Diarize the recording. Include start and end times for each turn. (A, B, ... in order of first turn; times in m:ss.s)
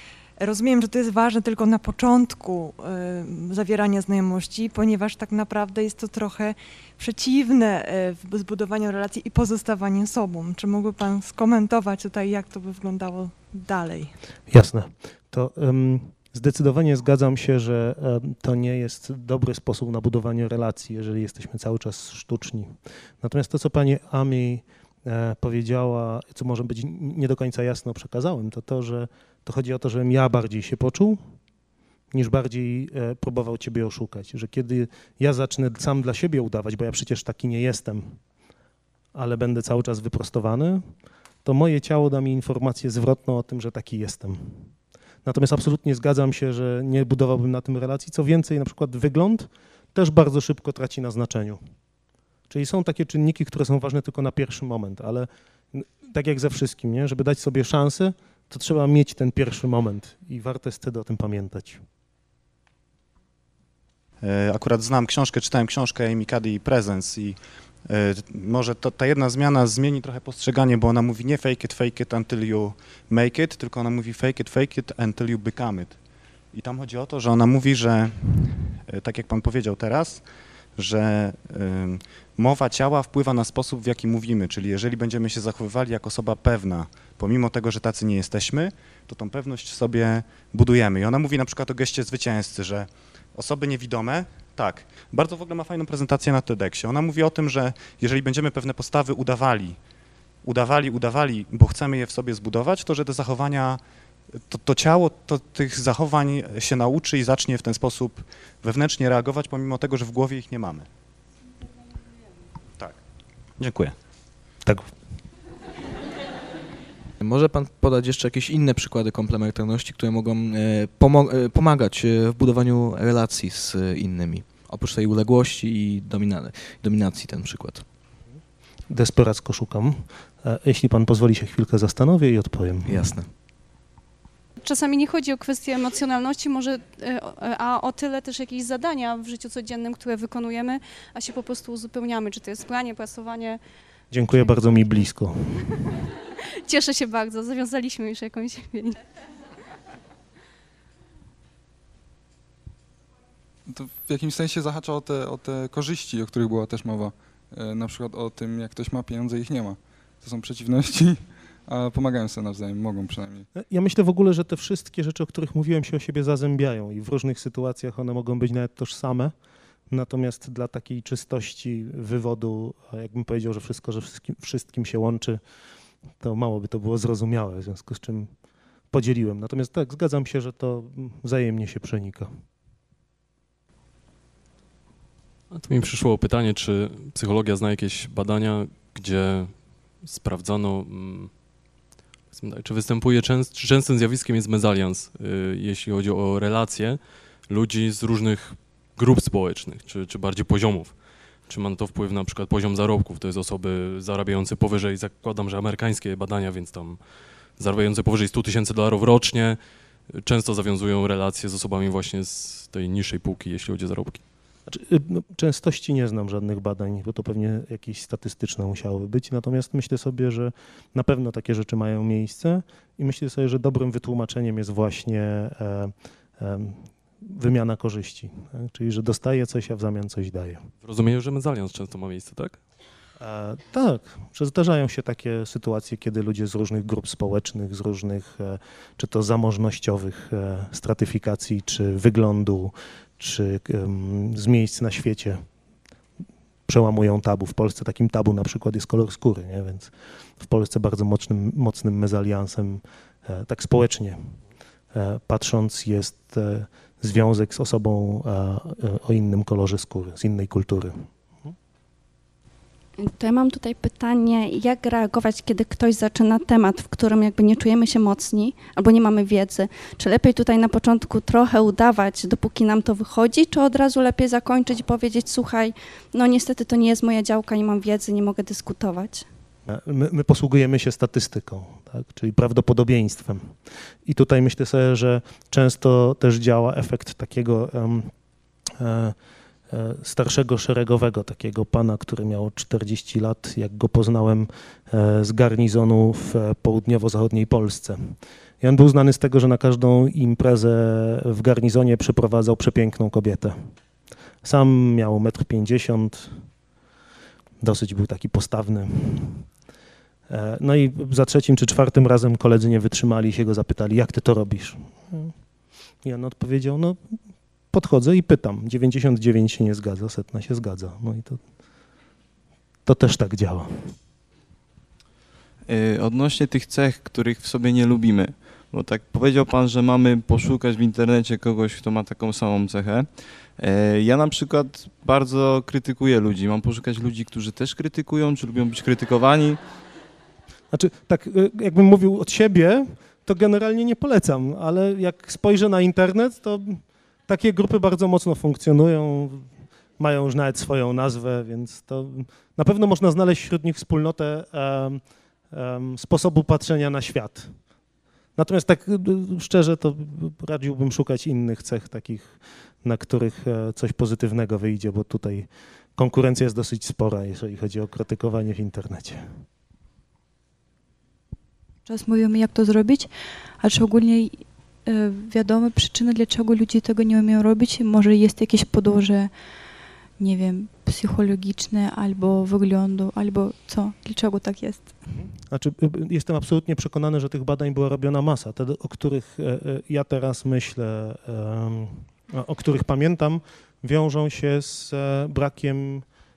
0:00.4-0:14.1 A
0:14.5-0:31.2 B
0:32.1-0:38.2 B
0:39.1-0:40.8 B
0:41.4-0:44.6 B
0:45.2-0:51.6 B
0:52.5-1:01.8 B
1:04.2-1:16.0 C
1:16.5-1:39.8 C
1:40.4-1:43.8 C
1:44.3-1:50.9 C
1:53.6-1:54.0 C
1:54.6-1:54.9 B
1:57.2-2:07.8 D
2:08.9-2:13.1 B
2:12.8-2:13.3 D
2:14.6-2:23.6 E
2:24.1-2:25.4 B
2:26.6-2:29.0 E
2:33.7-2:43.5 F
2:43.6-2:49.3 B
2:49.9-2:55.4 B
2:56.2-2:58.3 B
2:58.9-3:02.3 B
3:05.5-3:11.4 G
3:12.3-3:27.0 G
3:27.6-3:29.6 G
3:30.1-3:34.2 G
3:34.7-3:50.6 B
3:50.8-3:52.6 G
3:53.2-4:05.4 B
4:06.7-4:14.2 B
4:14.9-4:21.5 B
4:23.0-4:39.2 H
4:39.7-4:43.5 B
4:44.0-4:48.1 B
4:48.8-4:49.1 B
4:49.7-5:03.5 B
5:04.4-5:06.4 B
5:07.6-5:09.4 B
5:10.3-5:15.3 B
5:16.0-5:17.0 B
5:17.7-5:21.4 B
5:22.8-5:23.9 B
5:25.6-5:39.6 I
5:40.7-5:55.0 B
5:55.5-5:57.5 B
5:58.4-6:09.2 B
6:11.8-6:19.3 J
6:20.2-6:25.0 J
6:25.1-6:36.0 B